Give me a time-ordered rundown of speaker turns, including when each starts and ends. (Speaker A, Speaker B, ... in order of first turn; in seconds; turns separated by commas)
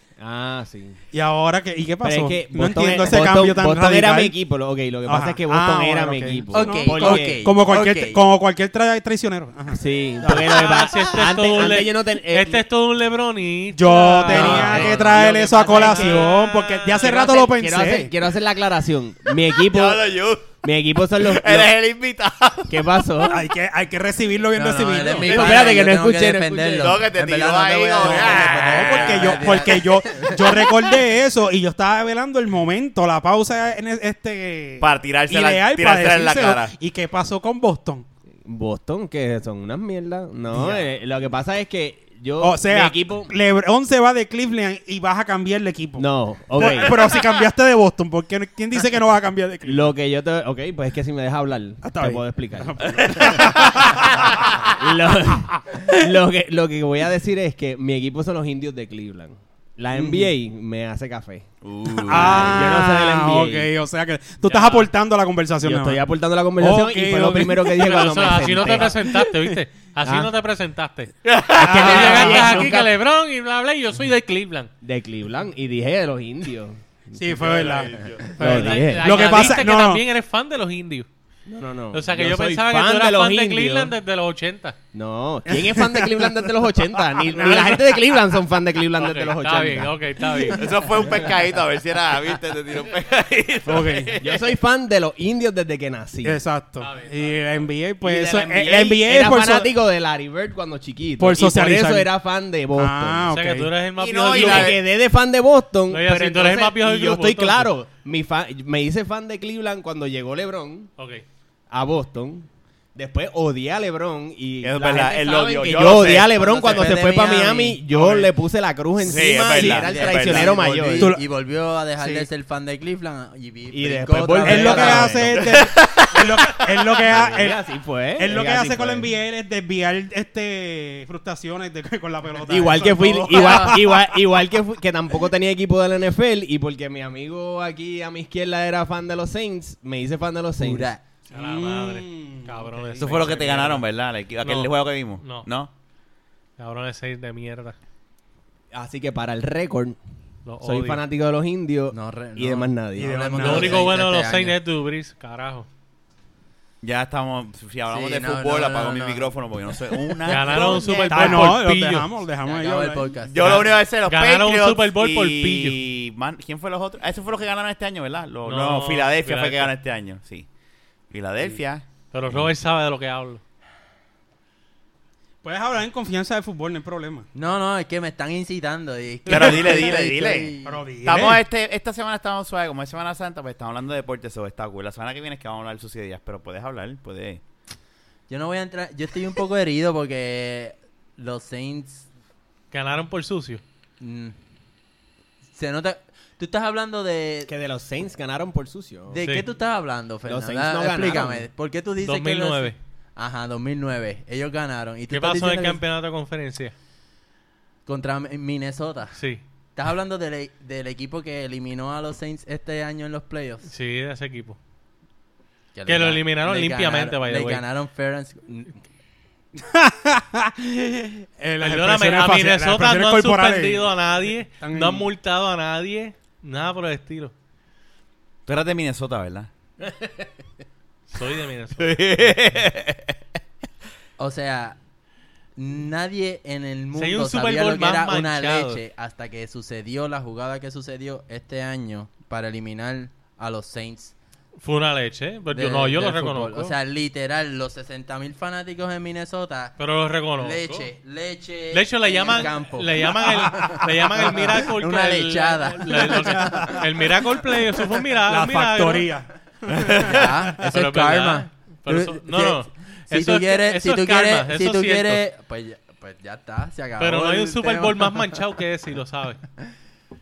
Speaker A: 0.2-1.0, Speaker B: 1.1-4.3, Speaker A: 2.0-7.4, Speaker B: 5.0-10.8, Speaker C: 6.5-8.2, Speaker A: 9.7-12.6, Speaker D: 10.4-17.2, Speaker B: 13.7-18.1, Speaker A: 14.3-16.3, Speaker A: 17.0-21.7, Speaker E: 19.6-20.6, Speaker E: 21.2-22.7, Speaker A: 22.7-23.4, Speaker B: 23.3-25.7, Speaker C: 24.5-30.6, Speaker A: 25.2-27.0, Speaker E: 26.8-29.7, Speaker A: 28.0-29.7, Speaker B: 28.2-38.0, Speaker E: 34.8-36.7, Speaker A: 38.4-43.3, Speaker B: 40.5-40.8, Speaker B: 42.4-49.9, Speaker A: 46.0-47.1, Speaker A: 49.6-54.1, Speaker B: 51.8-54.3, Speaker A: 54.7-63.7, Speaker B: 59.9-60.3, Speaker E: 61.6-62.7, Speaker B: 62.1-66.0, Speaker D: 64.4-64.9, Speaker A: 65.6-69.1, Speaker B: 66.6-68.1, Speaker D: 67.7-74.7, Speaker A: 70.0-70.3, Speaker E: 71.2-71.8, Speaker A: 71.5-72.9, Speaker B: 71.5-72.9, Speaker A: 74.8-77.5, Speaker B: 77.1-80.0, Speaker E: 77.3-78.6, Speaker A: 78.2-79.6, Speaker D: 78.4-81.1, Speaker A: 81.5-83.9, Speaker D: 81.9-84.8, Speaker A: 84.9-90.6, Speaker B: 85.5-86.5, Speaker B: 87.1-87.8, Speaker D: 89.0-90.6, Speaker E: 90.5-94.4, Speaker B: 93.7-94.2, Speaker A: 94.2-96.4, Speaker B: 96.2-99.7, Speaker D: 96.8-97.4, Speaker A: 98.0-103.3, Speaker B: 101.2-102.1, Speaker B: 102.8-103.7, Speaker D: 103.3-104.8, Speaker E: 104.0-104.8, Speaker A: 104.3-110.9, Speaker D: 105.9-107.7, Speaker D: 111.0-111.2, Speaker A: 111.7-121.1, Speaker E: 114.6-116.4, Speaker C: 116.1-117.8, Speaker B: 117.9-118.2, Speaker E: 119.0-120.6, Speaker C: 119.5-125.3, Speaker B: 121.0-121.2, Speaker A: 123.7-125.5, Speaker B: 124.4-127.6, Speaker E: 125.3-126.5, Speaker A: 127.0-129.1, Speaker B: 128.1-134.2, Speaker A: 132.4-140.9, Speaker C: 133.3-133.7, Speaker C: 140.6-141.0, Speaker B: 141.3-143.2, Speaker D: 141.3-143.8, Speaker E: 143.0-145.7, Speaker A: 143.1-143.4, Speaker D: 144.4-145.5, Speaker D: 146.6-147.7, Speaker A: 148.7-150.0, Speaker D: 150.4-151.0, Speaker A: 150.6-153.3, Speaker C: 151.9-154.6, Speaker B: 153.0-153.9, Speaker D: 153.4-155.7, Speaker E: 156.8-161.5, Speaker C: 157.9-159.3, Speaker D: 160.2-162.1, Speaker B: 161.1-163.5, Speaker C: 162.4-163.6, Speaker E: 163.2-170.5, Speaker D: 163.4-165.8, Speaker D: 168.4-169.7, Speaker E: 171.1-172.5, Speaker D: 172.1-173.4, Speaker B: 175.4-177.2, Speaker C: 177.3-180.8, Speaker E: 179.3-187.4, Speaker B: 180.6-181.4, Speaker C: 188.3-192.1, Speaker D: 192.7-193.6, Speaker C: 194.0-194.3, Speaker C: 195.5-197.5, Speaker A: 197.5-199.2, Speaker C: 199.1-205.8, Speaker A: 200.2-201.5, Speaker D: 202.0-202.8, Speaker D: 205.1-206.7, Speaker C: 207.8-209.2, Speaker D: 209.2-209.4, Speaker C: 209.8-213.7, Speaker D: 213.7-214.6, Speaker C: 215.7-218.8, Speaker D: 215.9-217.6, Speaker B: 219.6-223.9, Speaker D: 221.6-227.3, Speaker B: 224.6-225.1, Speaker E: 228.4-229.5, Speaker D: 231.1-232.0, Speaker E: 231.8-233.1, Speaker C: 234.2-234.8, Speaker C: 235.6-244.1, Speaker D: 236.9-238.8, Speaker D: 244.6-246.7, Speaker C: 245.5-249.8, Speaker D: 249.8-250.9, Speaker C: 250.4-256.8, Speaker D: 251.7-259.1, Speaker B: 253.3-253.8, Speaker B: 255.9-257.1, Speaker B: 257.9-260.6, Speaker E: 259.7-260.2, Speaker C: 259.9-268.4, Speaker D: 260.6-265.2, Speaker D: 267.0-269.4